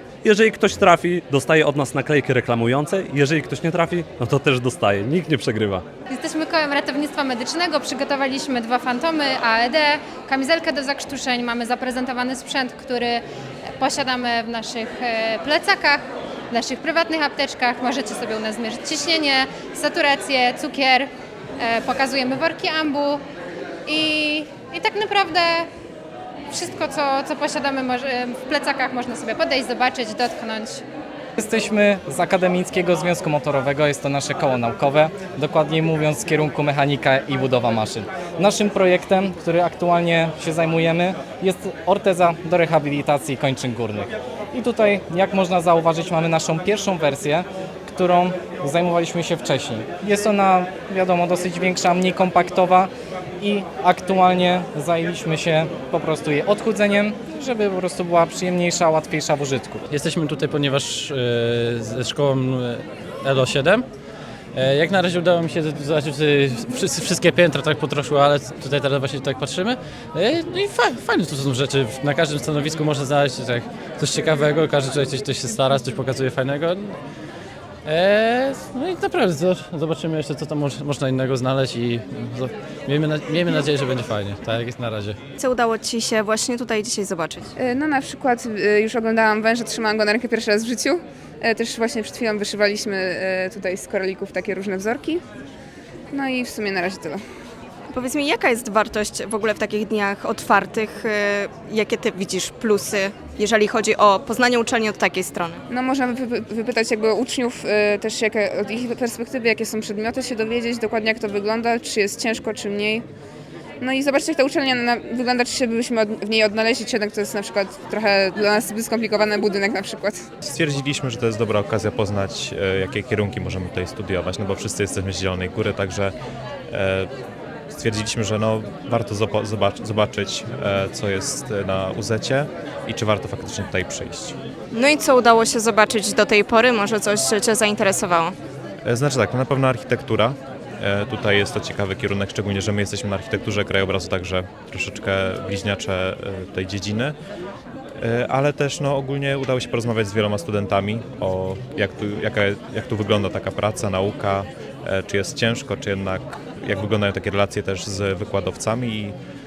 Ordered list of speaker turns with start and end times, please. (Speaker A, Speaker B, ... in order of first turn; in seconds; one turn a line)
Speaker A: 0.2-5.8
Speaker B: 6.1-13.2
Speaker B: 13.8-23.2
Speaker B: 23.9-25.7
Speaker B: 26.5-30.8
Speaker C: 31.4-59.9
Speaker D: 59.9-63.9
Speaker D: 64.5-77.0
Speaker D: 77.8-85.2
Speaker E: 85.4-87.5
Speaker F: 87.6-95.2
Speaker F: 96.1-97.2
Speaker E: 97.9-105.6
Speaker F: 105.7-113.0
Speaker F: 113.8-120.2
Speaker G: 120.4-126.1
Speaker G: 126.7-127.1
Speaker G: 127.7-134.3
Speaker E: 134.7-138.3
Speaker G: 138.8-147.2
Speaker G: 148.0-159.2